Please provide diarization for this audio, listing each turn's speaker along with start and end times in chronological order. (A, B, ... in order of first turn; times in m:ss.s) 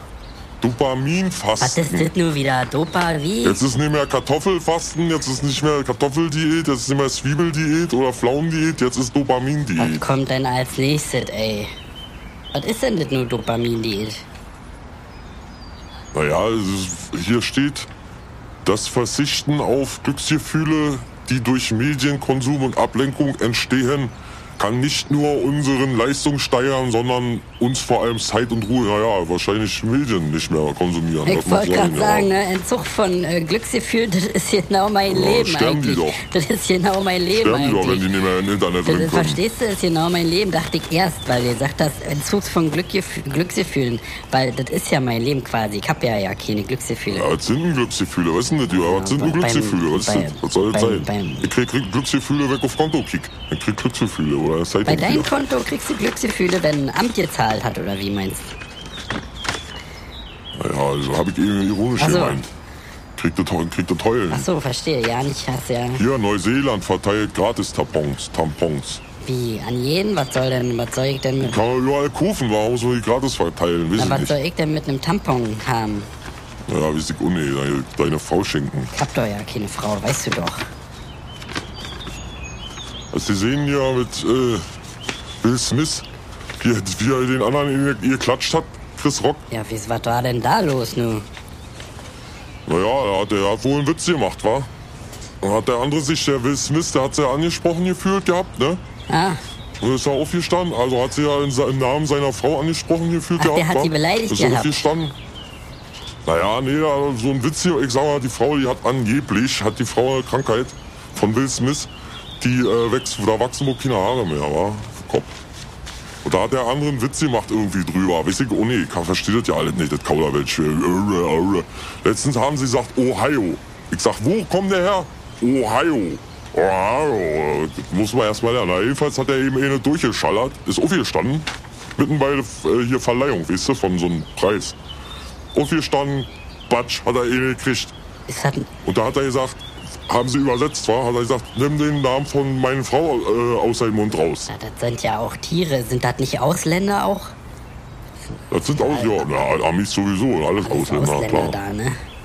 0:00.6-0:02.1 A
0:01.6-0:03.6 B
0:03.4-0:10.1 A
0:09.8-0:11.7 B
0:12.5-0:14.2 B
0:16.1-0:17.9 A
0:18.6-0:32.3 A
0:31.3-0:38.1 B
0:35.1-0:36.2 A
0:37.4-0:39.4 A
0:38.8-0:47.3 B
0:47.1-0:55.3 A
0:48.7-0:51.5 B
0:54.8-0:58.5 B
1:00.6-1:02.5 A
1:02.0-1:02.4 B
1:03.2-1:04.5 A
1:04.3-1:06.0 B
1:06.0-1:09.0 A
1:09.2-1:11.6 B
1:11.4-1:14.4 A
1:14.0-1:16.1 B
1:16.7-1:18.9 A
1:18.9-1:20.7 B
1:23.1-1:24.7 A
1:25.4-1:26.1 A
1:26.6-1:29.4 A
1:29.5-1:31.3 B
1:32.7-1:34.7 A
1:35.4-1:38.8 A
1:39.1-1:39.4 B
1:39.8-1:45.2 A
1:43.4-1:44.8 B
1:46.2-1:55.3 A
1:56.2-2:14.8 A
2:15.5-2:18.0 A
2:18.3-2:18.7 B
2:18.8-2:24.5 A
2:24.5-2:27.4 B
2:28.5-2:31.6 A
2:28.7-2:29.4 B
2:30.6-2:32.0 B